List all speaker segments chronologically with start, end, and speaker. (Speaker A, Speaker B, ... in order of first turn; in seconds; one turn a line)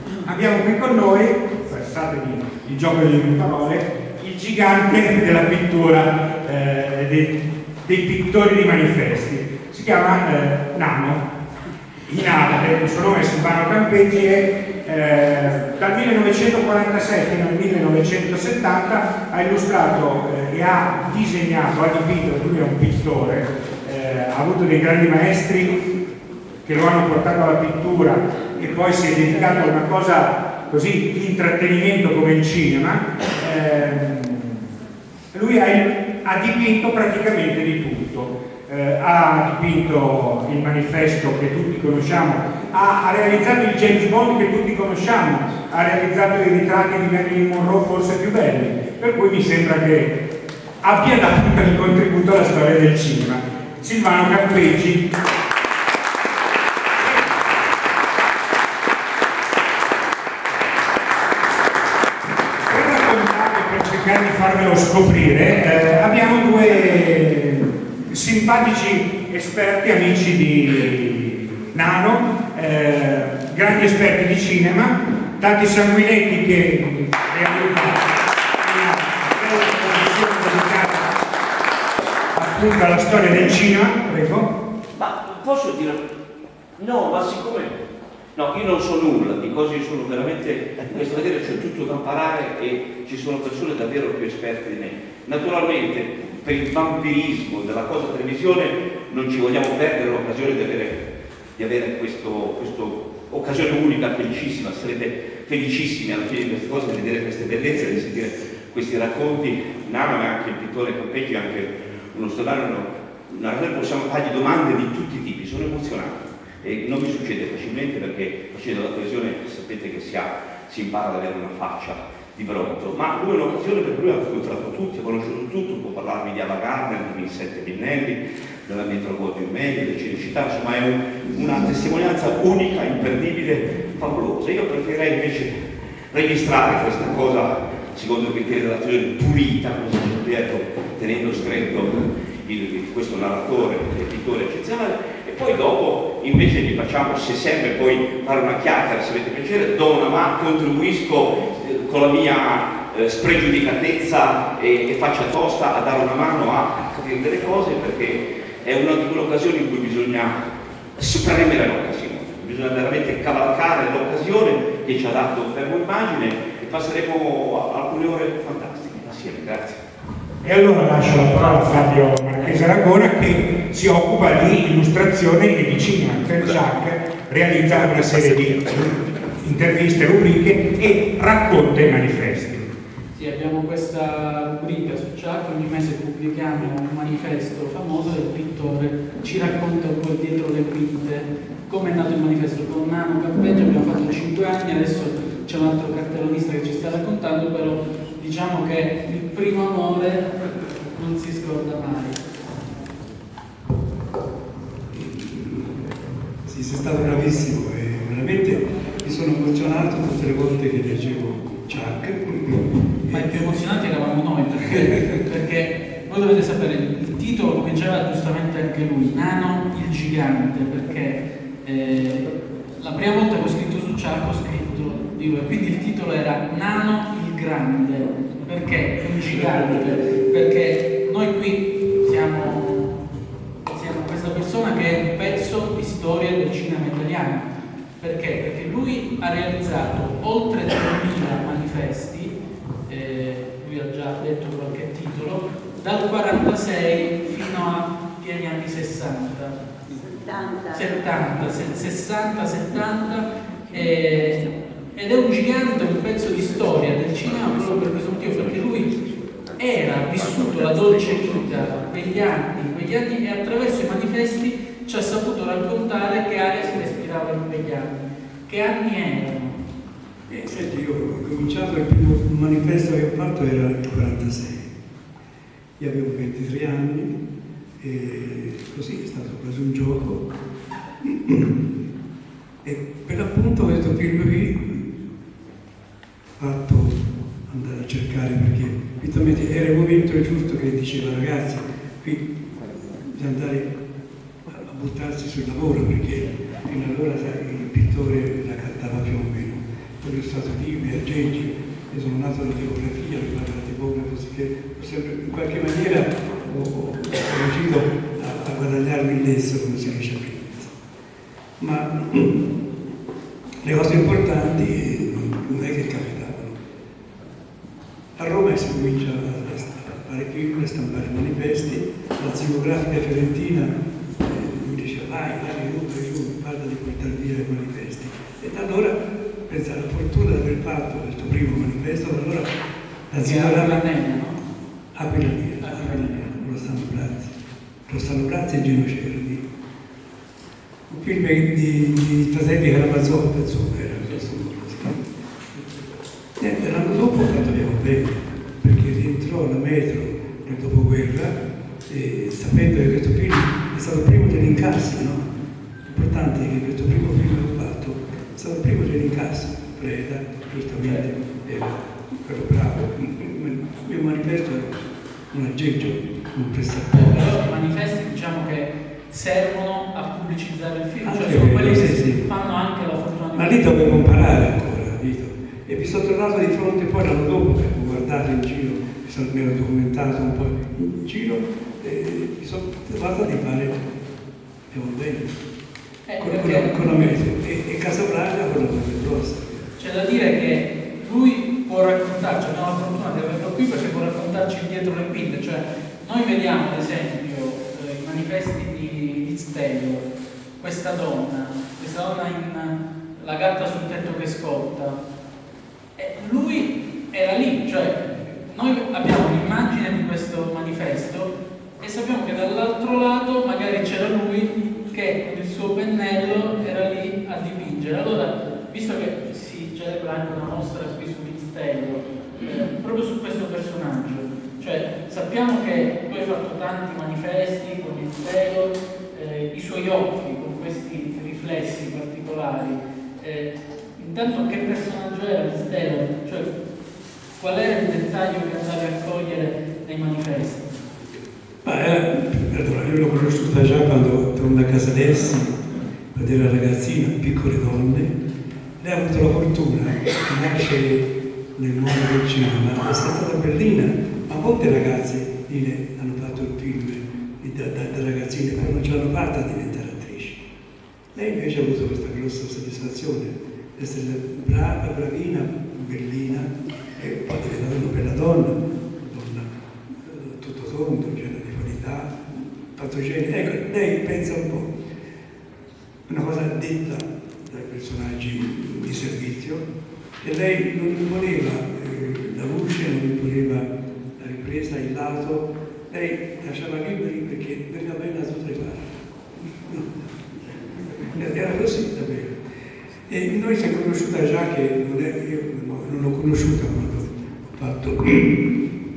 Speaker A: 0.2-11.3
Speaker A: 12.1-25.8
Speaker A: 26.6-34.7
Speaker A: 35.3-50.2
Speaker A: 50.8-55.1
Speaker A: 62.7-81.2
Speaker A: 82.3-84.5
Speaker B: 84.9-86.0
Speaker B: 86.8-87.8
Speaker B: 88.3-160.4
Speaker B: 161.0-169.8
Speaker A: 170.4-182.7
Speaker C: 183.1-200.3
Speaker C: 200.9-202.2
Speaker D: 204.9-205.8
Speaker D: 206.4-213.6
Speaker C: 213.1-233.0
Speaker D: 214.8-215.2
Speaker D: 229.2-229.8
Speaker C: 233.6-237.5
Speaker C: 238.0-242.3
Speaker C: 242.8-249.6
Speaker C: 250.7-259.0
Speaker C: 259.5-269.6
Speaker D: 270.3-274.7
Speaker D: 275.8-277.1
Speaker D: 277.8-280.3
Speaker D: 281.0-281.6
Speaker D: 282.6-285.0
Speaker D: 286.4-293.8
Speaker D: 294.4-310.8
Speaker D: 311.6-312.6
Speaker D: 313.6-316.6
Speaker D: 318.1-332.5
Speaker D: 333.1-333.8
Speaker C: 333.2-334.4
Speaker D: 334.9-337.3
Speaker C: 335.6-336.1
Speaker D: 337.9-339.5
Speaker D: 340.9-355.3
Speaker D: 355.8-367.4
Speaker C: 366.9-373.8
Speaker D: 371.0-372.3
Speaker D: 373.3-383.8
Speaker D: 384.7-385.3
Speaker C: 386.1-386.8
Speaker D: 386.2-389.7
Speaker C: 389.8-405.0
Speaker C: 405.9-436.5
Speaker C: 437.4-440.7
Speaker D: 441.6-448.1
Speaker D: 448.8-460.4
Speaker D: 461.1-474.7
Speaker D: 476.1-479.6
Speaker D: 480.2-492.4
Speaker D: 493.1-498.6